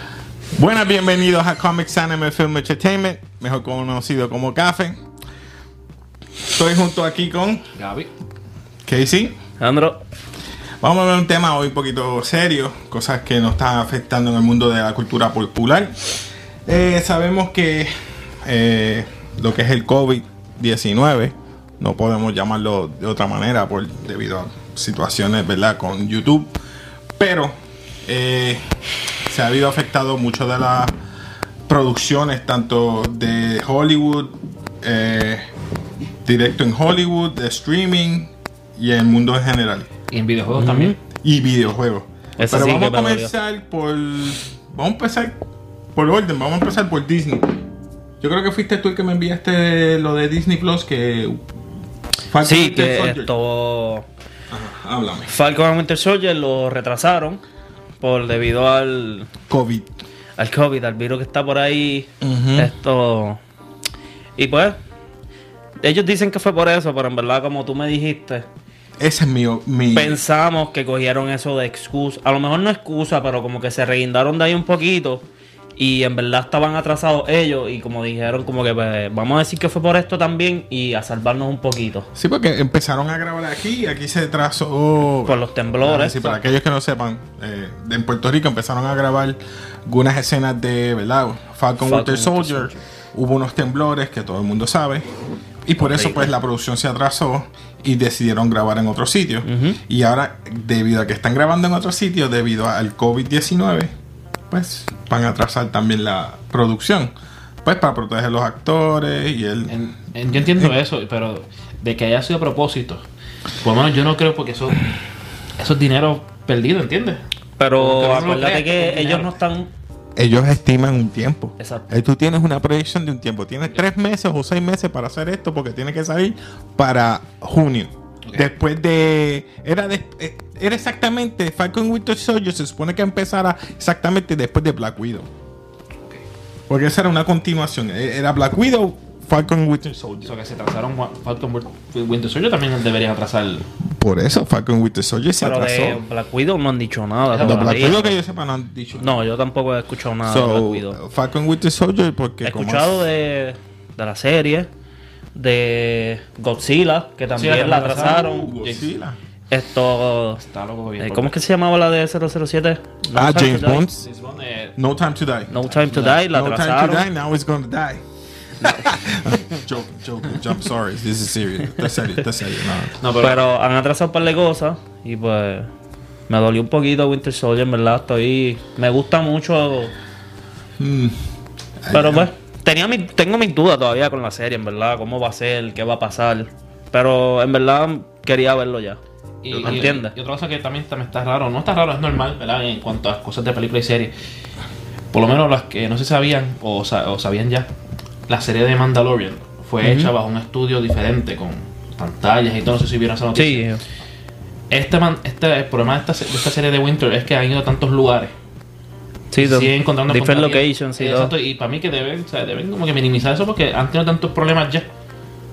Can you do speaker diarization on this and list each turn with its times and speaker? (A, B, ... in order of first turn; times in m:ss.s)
0:00.6-0:05.0 A
0:06.5-0:07.6 A
0:07.8-0:08.1 B
0:08.8-0:09.4 A
0:09.6-0:10.0 C
0:10.8-0:16.1 A
0:16.6-0:26.5 A
0:27.2-0:28.6 A
0:29.3-0:30.9 A
0:31.7-0:35.4 A
0:36.2-0:39.9 A
0:40.1-0:41.0 B
0:40.5-0:41.0 C
0:41.2-0:45.3 A
0:42.4-0:43.3 C
0:45.9-0:47.6 A
0:48.2-0:51.4 A
0:52.3-0:53.3 A
0:52.4-0:54.0 C
0:54.5-0:55.3 A
0:55.3-0:57.4 C
0:58.0-0:59.3 C
0:59.5-0:59.9 A
1:00.4-1:03.4 C
1:02.2-1:02.7 A
1:04.4-1:04.8 C
1:05.8-1:08.4 C
1:09.0-1:10.2 A
1:09.9-1:15.2 C
1:15.8-1:22.1 C
1:22.1-1:35.1 A
1:25.2-1:26.3 C
1:31.8-1:32.8 C
1:35.6-1:43.9 A
1:35.8-1:36.3 C
1:39.4-1:39.8 C
1:44.5-1:49.8 A
1:49.7-1:53.0 B
1:50.3-1:50.7 A
1:53.6-1:54.9 B
1:55.6-1:57.2 B
1:57.6-1:59.7 C
1:57.8-1:59.4 B
2:00.2-2:15.3 A
2:01.6-2:01.8 C
2:16.7-2:20.3 A
2:20.2-2:23.6 B
2:24.0-2:26.0 A
2:25.4-2:28.1 C
2:27.3-2:28.1 B
2:27.4-2:29.2 A
2:29.0-2:31.0 C
2:30.2-2:33.0 A
2:32.4-2:34.7 C
2:35.3-2:38.5 C
2:37.3-2:38.9 B
2:37.9-2:39.2 A
2:39.5-2:40.4 C
2:40.4-2:41.3 B
2:41.0-2:43.8 C
2:43.1-2:44.1 A
2:44.0-2:44.8 B
2:44.8-2:48.0 A
2:45.5-2:47.0 C
2:45.7-2:46.2 B
2:48.6-2:48.9 C
2:48.6-2:53.0 A
2:53.0-2:53.4 B
2:53.2-2:55.7 C
2:56.3-2:59.9 C
3:00.8-3:01.2 A
3:01.8-3:02.3 A
3:01.9-3:09.0 C
3:09.4-3:14.1 B
3:09.5-3:10.1 C
3:09.5-3:09.9 A
3:15.1-3:17.7 B
3:18.3-3:23.7 B
3:19.8-3:20.1 C
3:23.3-3:23.8 C
3:24.7-3:28.3 B
3:29.3-3:31.3 C
3:29.4-3:34.9 B